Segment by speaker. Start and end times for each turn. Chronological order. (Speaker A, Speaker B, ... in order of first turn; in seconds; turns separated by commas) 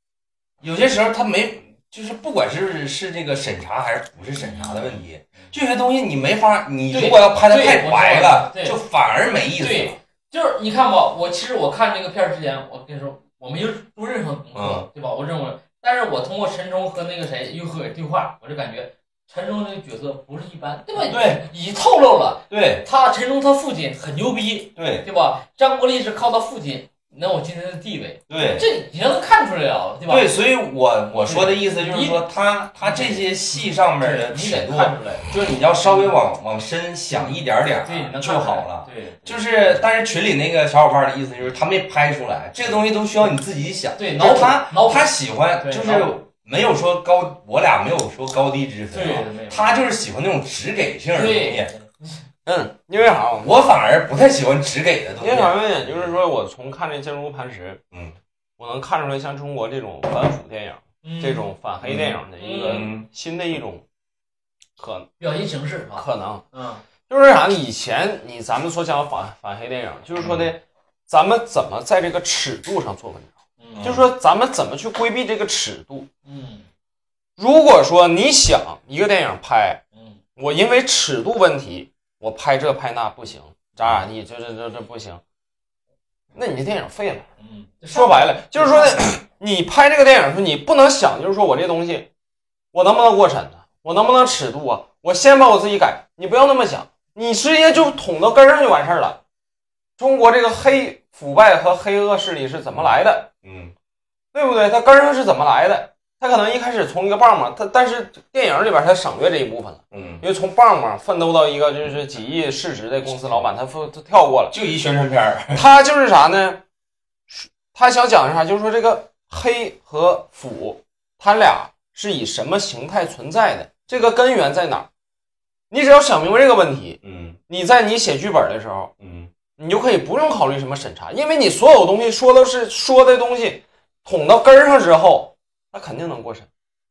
Speaker A: 0.6-10.0, Speaker B: 4.4-5.5, Speaker B: 6.9-8.8, Speaker B: 9.6-30.3, Speaker A: 14.6-14.9, Speaker A: 21.1-21.4, Speaker A: 22.5-22.9, Speaker A: 24.8-25.1, Speaker A: 28.3-28.7, Speaker A: 30.1-51.7, Speaker B: 31.2-32.2, Speaker B: 32.8-35.3, Speaker B: 35.8-36.2, Speaker B: 37.1-39.8, Speaker B: 44.0-46.1, Speaker B: 48.9-49.9, Speaker B: 51.1-52.2, Speaker C: 52.5-53.5, Speaker A: 53.4-56.2, Speaker C: 55.2-57.8, Speaker A: 57.9-58.2, Speaker C: 58.6-63.8, Speaker B: 61.0-61.5, Speaker A: 61.8-63.1, Speaker B: 62.4-62.9, Speaker C: 64.8-65.1, Speaker B: 65.2-66.8, Speaker C: 66.0-66.5, Speaker C: 67.1-76.1, Speaker A: 70.2-70.5, Speaker B: 73.6-73.9, Speaker A: 73.8-74.1, Speaker B: 76.2-76.7, Speaker C: 77.4-79.8, Speaker C: 80.4-85.2, Speaker A: 83.8-84.0, Speaker C: 86.3-87.3, Speaker B: 87.4-89.1, Speaker C: 87.9-92.1, Speaker C: 92.7-99.2, Speaker C: 100.0-103.3, Speaker A: 102.7-103.7, Speaker C: 104.3-114.5, Speaker A: 109.9-110.2, Speaker A: 114.5-115.7, Speaker C: 115.5-116.6, Speaker C: 117.3-124.9, Speaker C: 125.7-128.9, Speaker A: 127.0-127.4, Speaker A: 129.0-129.3, Speaker C: 129.6-136.5